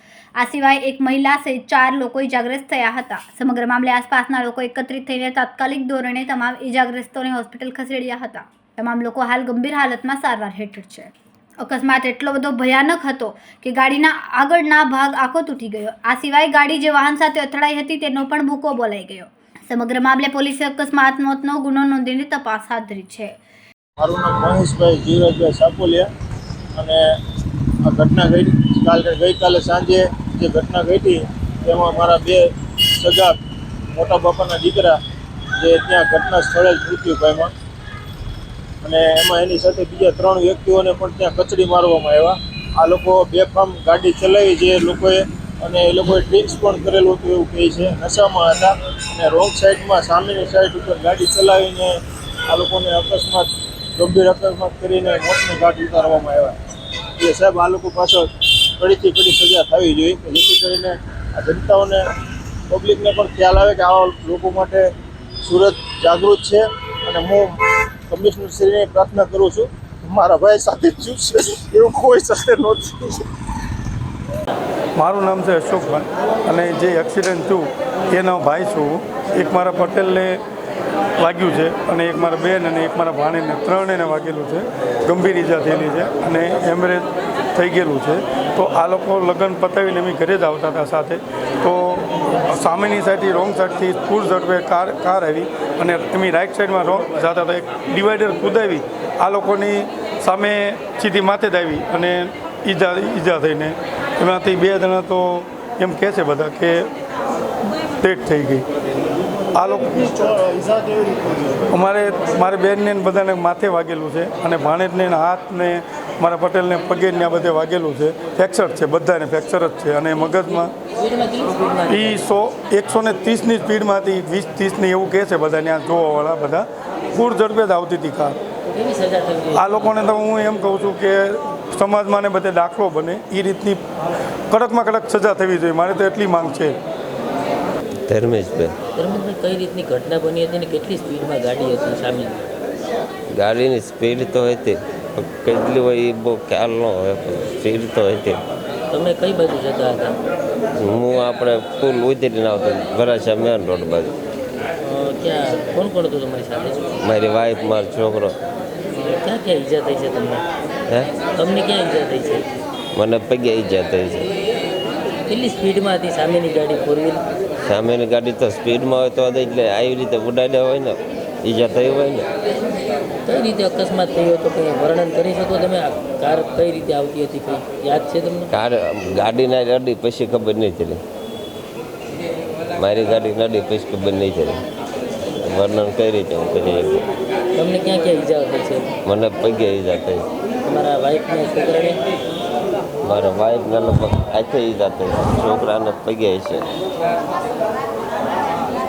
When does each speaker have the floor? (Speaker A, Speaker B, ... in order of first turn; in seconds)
Speaker A: 0.4-23.4
Speaker B: 24.0-26.1, 26.8-27.0, 27.9-33.3, 33.9-35.0, 35.6-37.5, 38.8-56.5, 57.2-62.0, 62.7-64.9, 65.4-67.5, 68.1-73.3, 110.6-111.4
Speaker C: 75.0-80.4, 81.2-106.9, 108.0-108.7, 109.5-110.3, 111.7-120.7, 121.9-128.4, 129.5-133.8, 134.5-136.8
Speaker D: 120.9-122.3, 128.6-129.8, 138.9-142.4, 148.9-150.2, 154.8-156.9, 158.9-160.4, 161.2-162.4, 165.3-167.2, 173.2-178.5, 187.5-188.9, 190.6-192.0
Speaker E: 138.1-138.8, 143.3-148.4, 150.8-154.1, 157.0-158.3, 162.9-164.2, 167.6-172.2, 178.5-181.0, 182.8-184.6, 185.4-187.0, 189.0-190.2, 193.0-196.6